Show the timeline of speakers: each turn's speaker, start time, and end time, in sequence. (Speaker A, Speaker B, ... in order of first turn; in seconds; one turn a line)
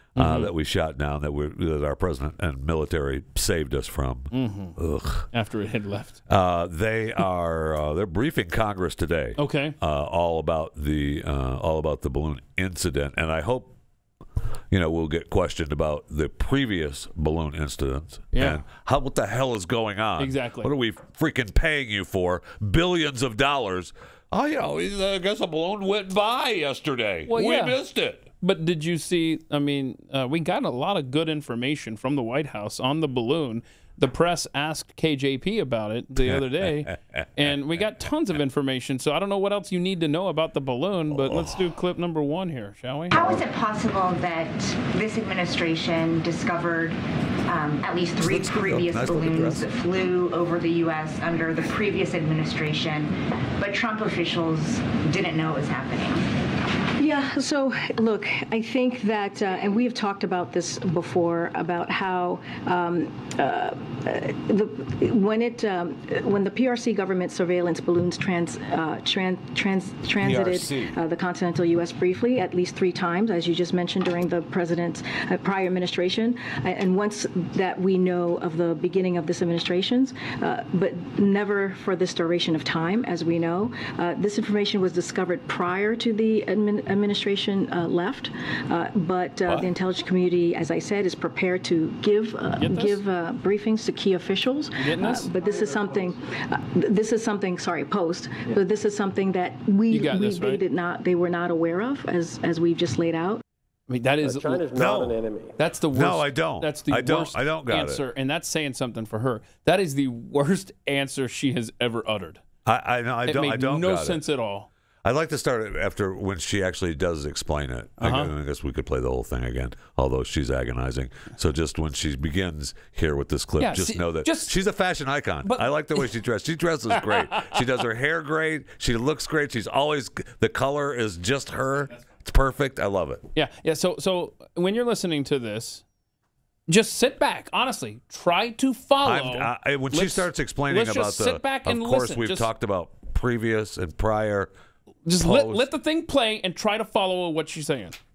Speaker A: 0.2-0.5
Speaker B: 0.2-5.3
Speaker A: 4.3-4.8
Speaker A: 5.3-6.2
Speaker B: 6.3-13.8
Speaker A: 9.4-9.8
Speaker B: 14.7-28.3
Speaker A: 18.3-18.6
Speaker A: 20.2-20.7
Speaker A: 27.3-27.8
Speaker A: 28.4-43.2
Speaker B: 36.2-37.9
Speaker B: 41.1-41.7
Speaker C: 43.1-56.2
Speaker B: 48.2-49.7
Speaker D: 57.0-103.4
Speaker B: 70.2-71.0
Speaker A: 92.6-93.0
Speaker A: 94.8-95.3
Speaker E: 95.4-96.0
Speaker A: 99.9-100.6
Speaker A: 103.9-104.8
Speaker E: 104.2-105.5
Speaker B: 104.8-105.2
Speaker A: 105.6-112.4
Speaker B: 105.9-108.0
Speaker B: 112.7-114.2
Speaker A: 113.3-114.7
Speaker B: 115.0-133.3
Speaker A: 118.0-118.3
Speaker A: 123.6-124.5
Speaker A: 125.4-126.1
Speaker A: 127.0-127.6
Speaker A: 133.3-135.8
Speaker A: 136.7-142.5
Speaker B: 139.0-144.5
Speaker A: 145.1-148.0
Speaker B: 145.2-145.7